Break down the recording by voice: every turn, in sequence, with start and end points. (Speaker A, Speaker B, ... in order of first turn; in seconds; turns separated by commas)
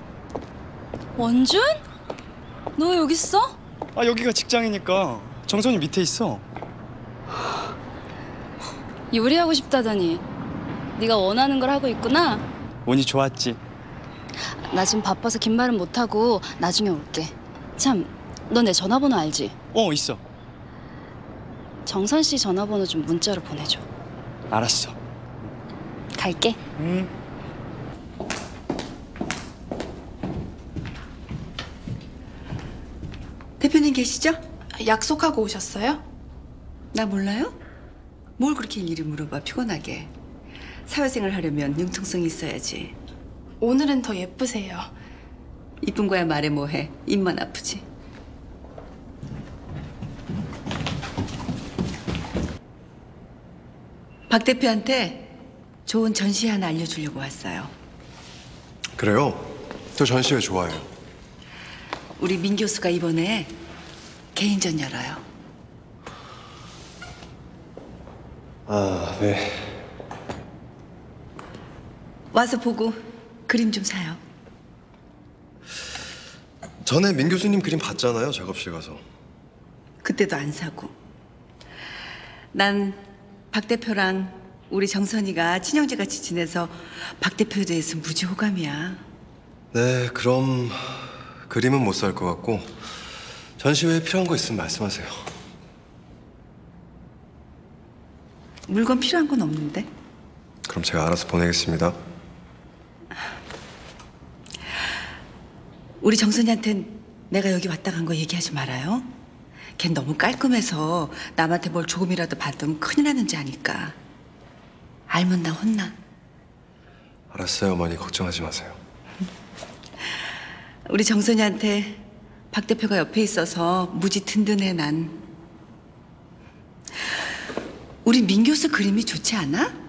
Speaker A: 1.1-1.8, Speaker A: 2.8-3.5, Speaker B: 3.9-6.4, Speaker A: 9.1-10.2, Speaker A: 10.9-12.4, Speaker B: 12.8-13.6, Speaker A: 14.7-19.6, Speaker B: 19.7-20.2, Speaker A: 21.9-23.8, Speaker B: 24.5-25.0, Speaker A: 26.2-26.6, Speaker B: 26.8-27.1, Speaker C: 33.6-34.4, Speaker D: 34.8-36.0, Speaker C: 36.9-37.6, Speaker C: 38.4-40.1, Speaker C: 40.9-43.0, Speaker D: 43.6-44.9, Speaker C: 45.8-47.8, Speaker C: 54.3-57.7, Speaker E: 59.0-60.9, Speaker C: 62.2-63.5, Speaker C: 64.3-65.2, Speaker E: 68.7-69.8, Speaker C: 72.3-74.2, Speaker E: 76.8-79.0, Speaker C: 80.0-80.9, Speaker C: 82.5-83.0, Speaker C: 83.5-89.0, Speaker E: 89.7-92.8, Speaker E: 93.6-95.3, Speaker C: 98.7-99.9, Speaker E: 100.7-101.9, Speaker C: 106.0-109.1, Speaker C: 109.8-114.0, Speaker C: 115.1-115.9, Speaker E: 117.3-118.8, Speaker C: 120.8-125.2, Speaker C: 128.0-129.7